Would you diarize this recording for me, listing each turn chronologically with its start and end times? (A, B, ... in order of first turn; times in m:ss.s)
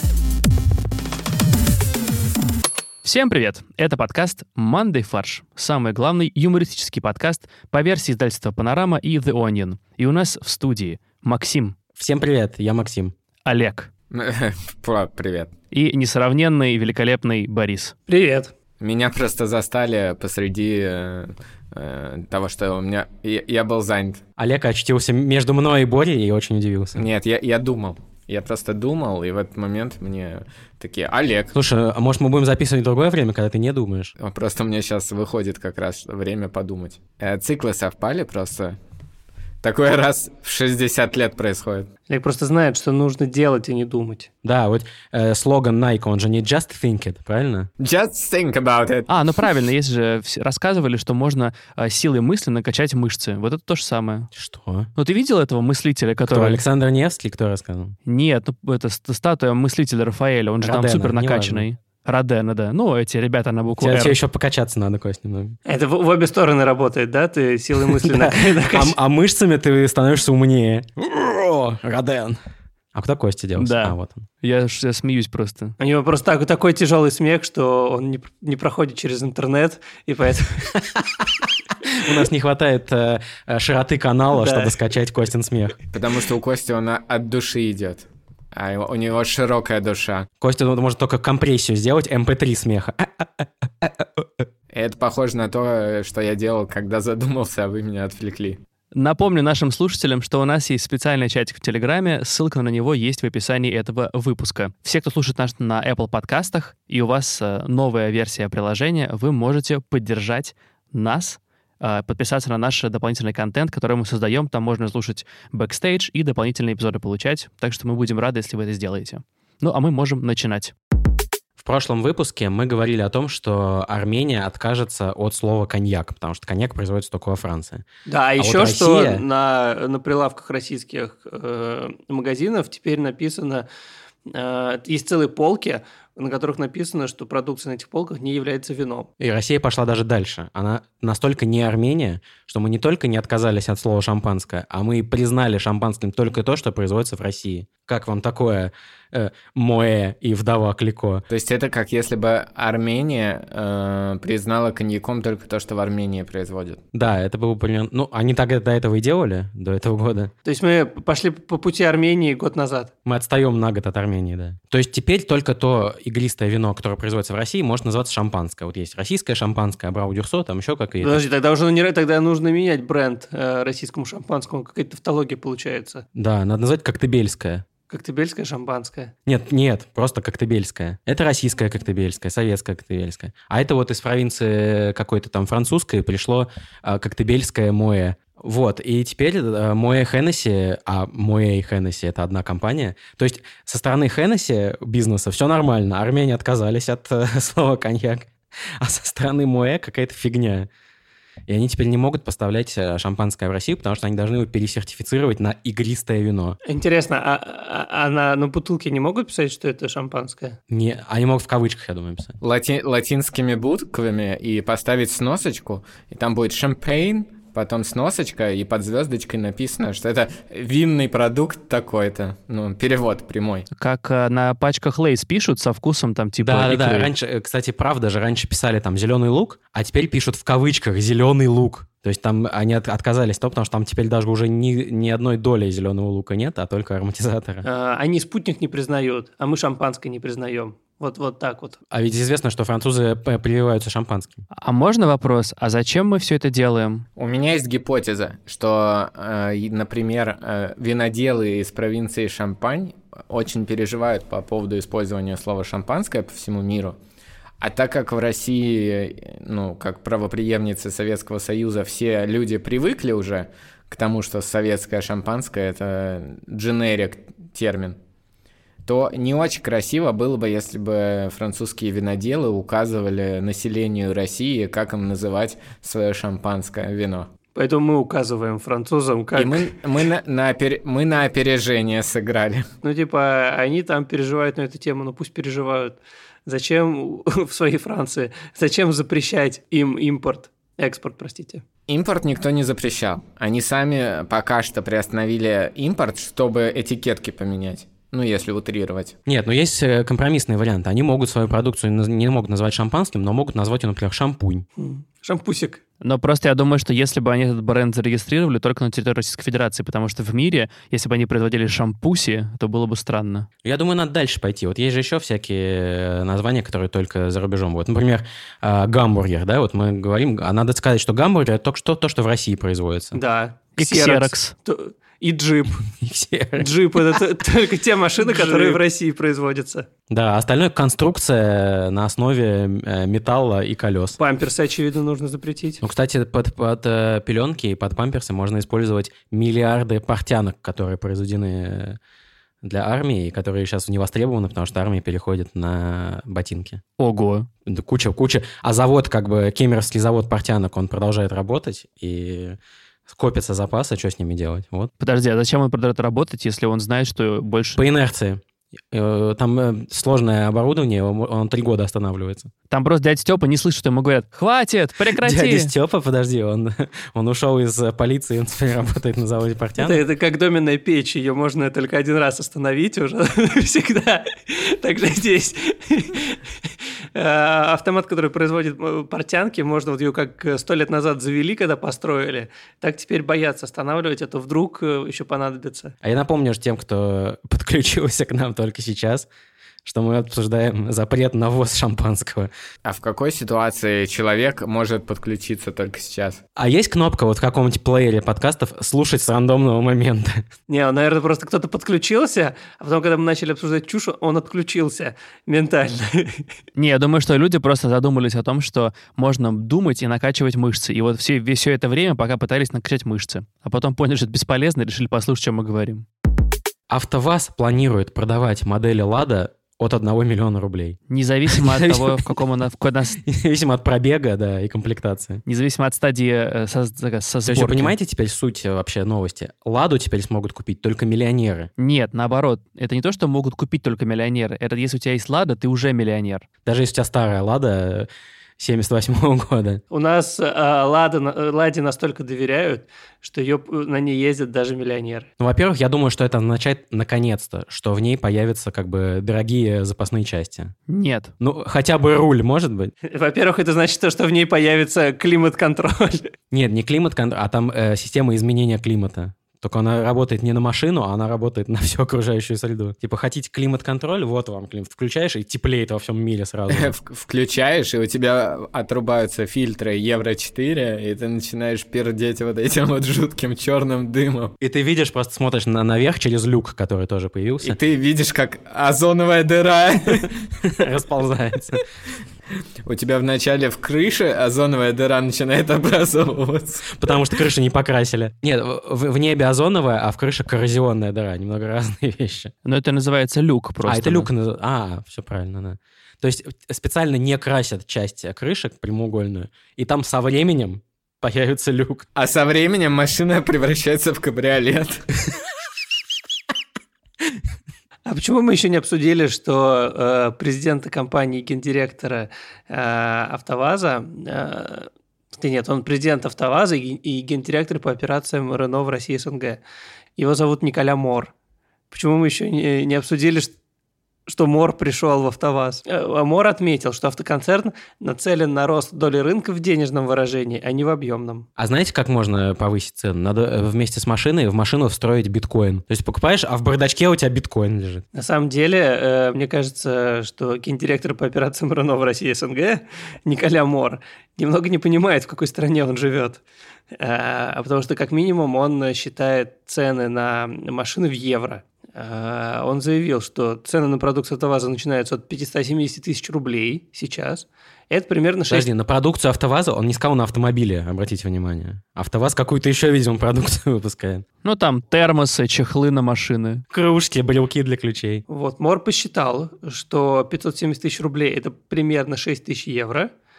0:03.0-0:11.8 A
0:12.0-0:13.1 B
0:13.4-0:13.9 A
0:14.1-0:15.5 C
0:15.7-0:17.9 A
0:18.1-0:18.5 D
0:18.8-0:24.2 C
0:24.4-0:27.0 B
0:27.0-0:31.5 C
0:31.5-0:34.1 B
0:34.2-0:38.8 C
0:39.6-0:41.9 C
0:42.1-0:44.3 D
0:44.4-0:47.7 B
0:47.8-0:49.5 C
0:49.1-0:54.3 A
0:54.4-0:54.9 B
0:55.0-0:56.6 A
0:56.3-0:58.0 B
0:58.1-1:04.2 A
1:00.6-1:01.7 B
1:03.8-1:05.6 B
1:05.7-1:09.0 D
1:08.0-1:12.4 B
1:12.9-1:14.3 B
1:13.6-1:15.8 A
1:15.8-1:20.8 D
1:20.8-1:21.3 B
1:21.9-1:25.8 B
1:24.3-1:24.8 D
1:25.9-1:30.3 C
1:30.4-1:34.2 B
1:34.7-1:38.6 C
1:38.9-2:00.7 A
2:01.6-2:07.8 B
2:08.1-2:13.7 D
2:08.4-2:09.3 B
2:14.3-2:19.1 D
2:19.2-2:31.2 B
2:31.3-2:36.9 C
2:36.9-2:40.3 B
2:40.4-2:42.9 D
2:43.0-2:51.2 B
2:51.0-2:56.0 D
2:56.2-2:57.6 B
2:57.9-2:59.1 D
2:59.3-3:20.7 B
3:21.5-3:26.6 B
3:26.7-3:30.6 D
3:30.7-3:32.4 B
3:32.4-3:43.7 C
3:43.7-3:47.1 A
3:46.4-3:57.7 B
3:57.6-4:01.8 D
4:01.9-4:04.4 B
4:04.5-4:07.0 A
4:07.2-4:17.0 C
4:17.6-4:28.0 C
4:28.9-4:37.3 C
4:37.6-4:39.7 D
4:39.4-4:42.7 C
4:42.8-4:51.6 D
4:51.9-4:59.2 C
4:59.3-5:04.7 B
5:04.8-5:05.8 D
5:06.0-5:13.5 A
5:13.6-5:23.2 B
5:23.1-5:25.8 D
5:23.8-5:24.5 A
5:25.9-5:27.2 B
5:26.6-5:29.9 D
5:28.4-5:28.7 B
5:30.1-5:34.2 B
5:34.2-5:35.8 D
5:35.8-5:42.0 B
5:42.6-5:46.8 B
5:47.0-5:47.5 A
5:47.7-5:54.9 B
5:55.0-5:57.8 A
5:57.8-6:02.5 B
6:02.7-6:05.7 A
6:05.2-6:10.0 B
6:09.8-6:16.4 D
6:17.2-6:25.9 D
6:26.0-6:29.3 B
6:29.8-6:32.5 B
6:32.8-6:36.4 C
6:36.6-6:40.4 B
6:40.7-6:46.4 D
6:46.8-6:56.1 A
6:56.9-7:02.4 B
7:01.1-7:03.2 A
7:03.2-7:05.4 B
7:05.5-7:07.9 A
7:07.5-7:11.7 B
7:11.8-7:16.5 A
7:16.6-7:19.8 B
7:19.9-7:25.3 D
7:25.4-7:30.7 B
7:30.9-7:31.3 A
7:31.4-7:32.9 B
7:33.0-7:36.3 D
7:36.5-7:46.9 B
7:46.7-7:54.5 C
7:54.6-7:57.8 B
7:57.6-8:00.4 C
8:00.6-8:01.8 B
8:02.8-8:07.2 C
8:06.9-8:12.5 B
8:12.6-8:14.3 A
8:13.8-8:22.1 B
8:22.2-8:25.1 C
8:28.1-8:39.6 D
8:40.2-8:41.3 D
8:41.9-8:43.5 D
8:44.3-8:51.5 D
8:51.6-8:58.0 B
8:58.2-9:06.4 D
9:06.9-9:18.7 D
9:18.5-9:24.2 B
9:24.4-9:26.6 A
9:26.7-9:28.2 B
9:28.3-9:33.1 D